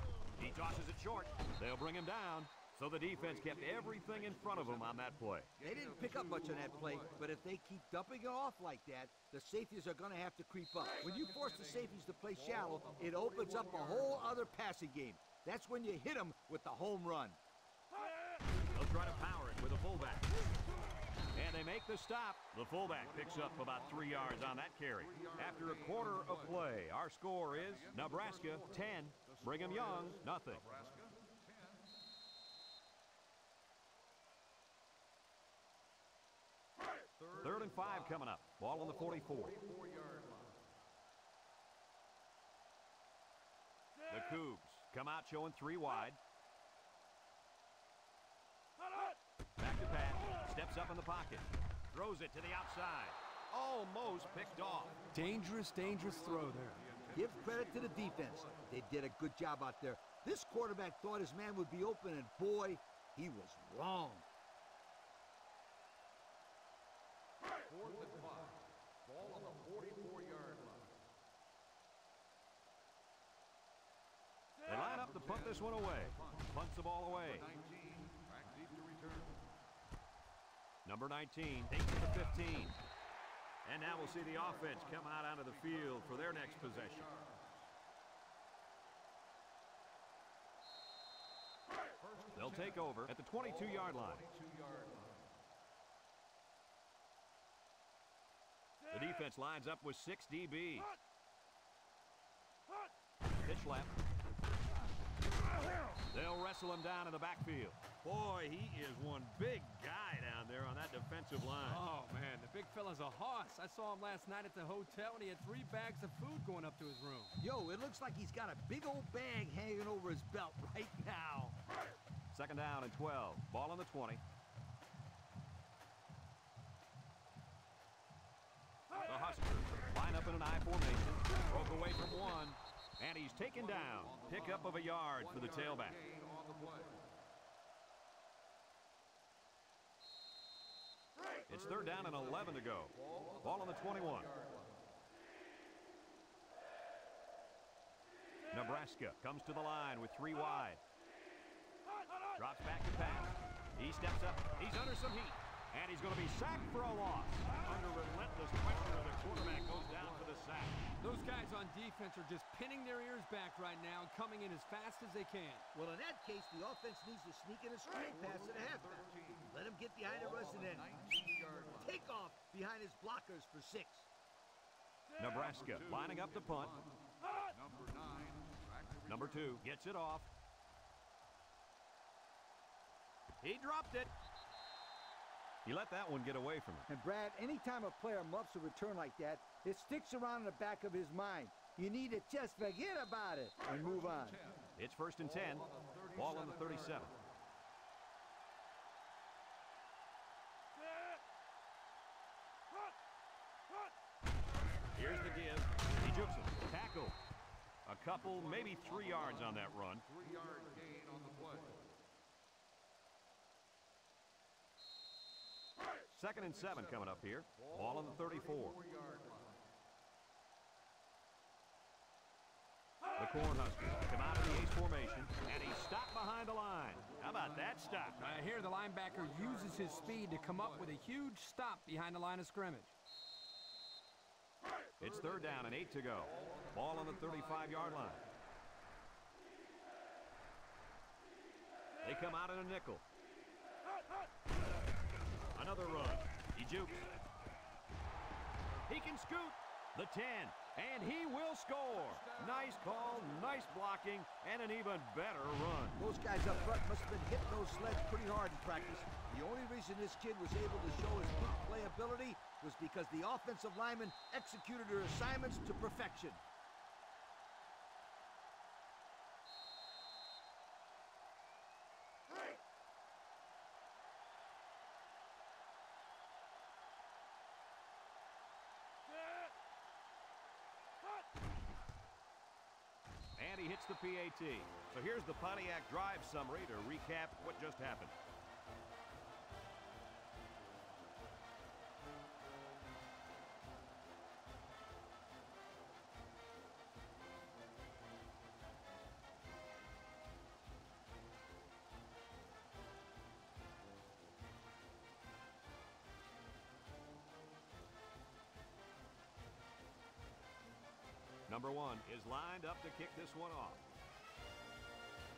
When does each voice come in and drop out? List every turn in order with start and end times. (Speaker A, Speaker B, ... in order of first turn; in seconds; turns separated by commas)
Speaker A: 0.4-5.5, Speaker B: 3.1-7.2, Speaker C: 5.6-17.4, Speaker B: 11.0-14.3, Speaker A: 18.7-20.3, Speaker A: 21.3-30.6, Speaker B: 22.9-26.7, Speaker B: 27.5-31.8, Speaker B: 37.2-40.6, Speaker A: 37.4-39.6, Speaker A: 44.1-46.2, Speaker A: 49.6-55.0, Speaker B: 54.0-58.6, Speaker D: 55.1-56.8, Speaker C: 57.1-64.2, Speaker B: 67.7-70.9, Speaker A: 74.7-77.5, Speaker B: 74.7-76.5, Speaker B: 77.1-79.5, Speaker A: 80.8-82.8, Speaker A: 83.6-87.1, Speaker B: 83.9-87.6, Speaker B: 92.0-95.3, Speaker A: 92.3-94.2, Speaker A: 98.9-100.9, Speaker A: 103.4-103.9, Speaker A: 106.1-111.8, Speaker D: 111.6-117.4, Speaker C: 117.4-121.5, Speaker A: 122.3-124.2, Speaker A: 129.1-136.0, Speaker B: 133.5-137.1, Speaker A: 141.5-144.3, Speaker B: 141.8-144.8, Speaker A: 148.5-150.8, Speaker A: 152.3-160.8, Speaker B: 158.5-160.4, Speaker D: 161.0-165.6, Speaker C: 165.7-171.1, Speaker B: 168.1-172.0, Speaker C: 171.8-174.1, Speaker A: 175.2-176.8, Speaker B: 175.3-179.6, Speaker A: 179.1-180.3, Speaker A: 183.4-184.1, Speaker A: 185.6-186.9, Speaker C: 186.9-194.4, Speaker B: 193.8-197.2, Speaker A: 194.8-197.1, Speaker A: 204.9-207.2, Speaker A: 207.8-210.0, Speaker B: 208.2-211.9, Speaker A: 216.1-218.8, Speaker B: 216.4-219.6, Speaker A: 223.2-228.3, Speaker B: 226.9-230.9, Speaker D: 228.2-232.9, Speaker A: 235.0-238.2, Speaker B: 235.0-238.2, Speaker A: 242.0-243.0, Speaker A: 245.5-247.0, Speaker A: 248.9-256.0, Speaker B: 251.9-253.5, Speaker C: 256.0-266.4, Speaker A: 283.4-288.1, Speaker A: 311.5-313.8